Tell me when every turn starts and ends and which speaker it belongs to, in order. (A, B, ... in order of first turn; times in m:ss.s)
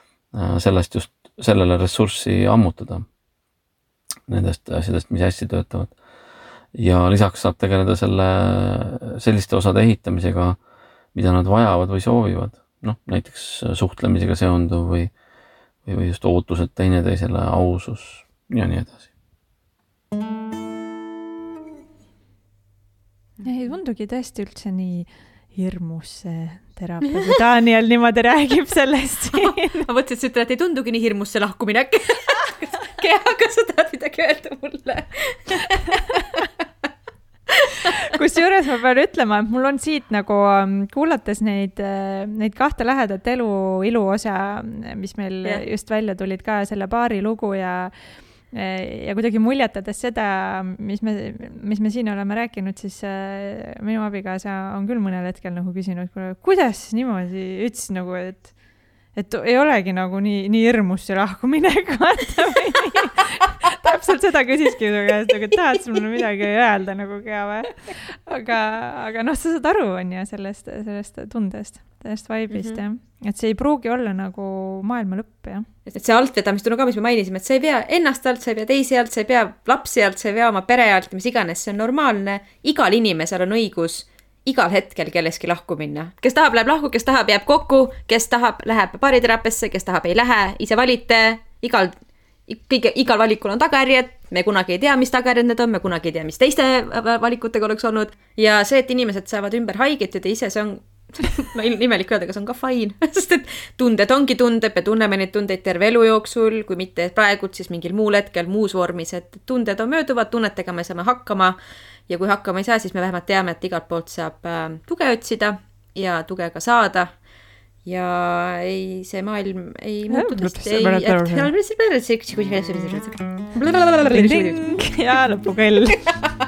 0:00.3-0:03.1 A
0:04.3-0:05.9 A
0:06.8-0:10.6 A
0:11.1-0:15.1 A
0:15.9-0:19.1 A
0:23.4-0:29.9 B
0:29.3-0:36.4 C
0:37.9-0:47.9 B
0:48.5-0:58.5 B
0:59.2-1:15.7 B
1:12.5-1:12.8 C
1:15.9-1:32.0 C
1:32.5-1:51.6 C
1:52.1-1:57.1 C
1:57.8-2:04.8 C
2:00.1-2:01.5 B
2:04.1-2:06.0 B